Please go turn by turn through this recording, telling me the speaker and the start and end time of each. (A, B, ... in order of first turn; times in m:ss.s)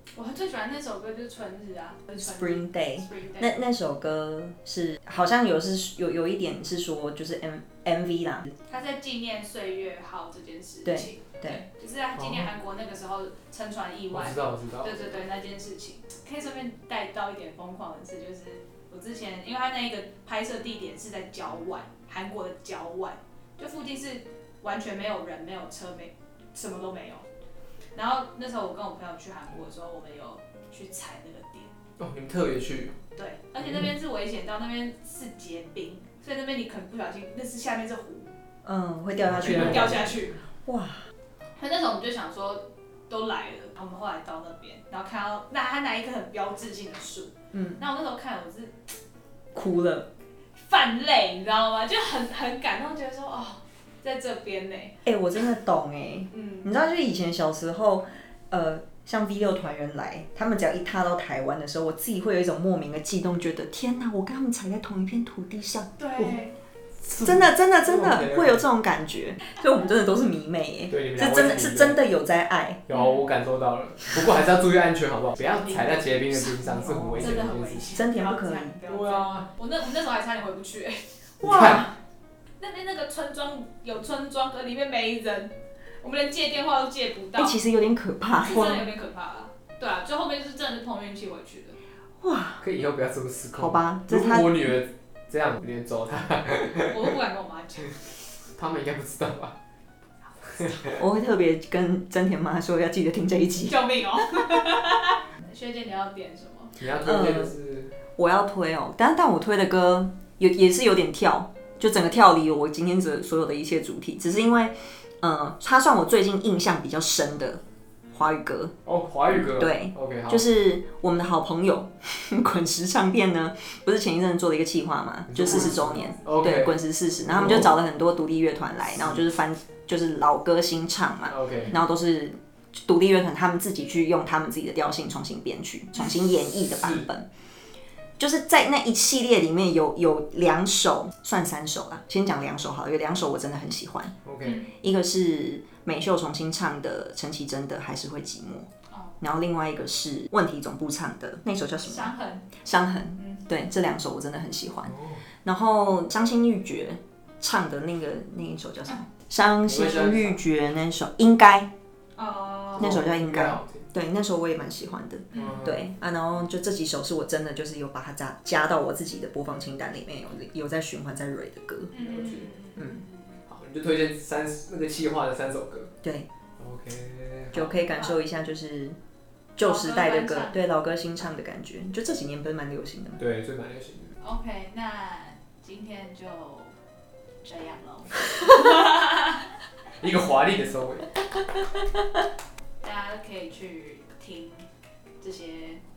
0:00.2-0:03.6 A
0:02.2-0:08.5 B
0:08.7-0:27.3 A
0:10.8-0:11.6 B
0:12.2-0:12.5 C
0:14.1-0:15.1 C
0:27.9-0:31.7 A
0:32.0-0:32.9 C
0:33.2-0:38.3 A
0:38.6-0:41.0 B
0:39.2-0:40.1 C
0:39.4-0:40.4 A
0:41.6-0:48.8 A
0:47.5-0:47.8 B
0:49.5-0:50.1 B
0:50.6-0:54.9 A
0:55.0-1:06.4 B
0:56.3-0:56.7 A
1:06.0-1:06.5 A
1:07.0-1:08.6 C
1:07.2-1:12.9 B
1:10.9-1:12.0 C
1:12.9-1:17.9 C
1:12.9-1:13.2 A
1:15.4-1:16.5 A
1:16.6-1:18.7 B
1:17.1-1:21.0 A
1:18.9-1:19.5 C
1:21.4-1:21.9 C
1:21.4-1:21.9 B
1:22.6-1:27.6 A
1:27.4-1:28.7 B
1:28.4-1:31.8 A
1:28.5-1:28.9 C
1:32.2-1:32.6 B
1:32.6-1:37.1 C
1:33.6-1:34.7 B
1:36.9-1:37.9 A
1:38.6-1:39.6 C
1:40.6-1:41.0 C
1:40.9-1:44.6 B
1:43.6-1:46.7 A
1:46.8-1:47.9 C
1:47.0-1:47.5 B
1:48.2-1:57.6 B
1:58.1-1:58.8 B
1:58.8-2:00.4 C
1:59.3-2:17.3 B
2:05.3-2:07.7 C
2:05.5-2:06.2 A
2:08.9-2:09.2 C
2:11.3-2:11.8 C
2:16.6-2:17.1 C
2:18.2-2:24.2 B
2:24.2-2:24.6 C
2:24.4-2:24.7 A
2:24.7-2:28.7 B
2:28.9-2:29.2 A
2:29.2-2:41.7 B
2:31.8-2:32.5 A
2:33.2-2:33.4 A
2:34.9-2:35.2 C
2:39.6-2:40.4 C
2:42.2-2:43.0 A
2:42.8-2:43.8 C
2:42.8-2:52.0 B
2:45.3-2:45.6 A
2:45.4-2:45.9 C
2:51.9-2:53.4 A
2:52.0-2:52.5 C
2:52.8-2:53.0 B
2:53.5-2:55.9 C
2:56.0-2:56.3 B
2:56.6-2:57.8 C
2:57.5-2:59.0 B
2:57.9-2:58.2 A
2:59.6-3:03.2 B
2:59.6-3:00.7 A
3:03.2-3:04.1 C
3:04.2-3:06.7 A
3:07.4-3:09.5 A
3:10.0-3:11.1 C
3:12.8-3:14.6 A
3:15.2-3:15.8 A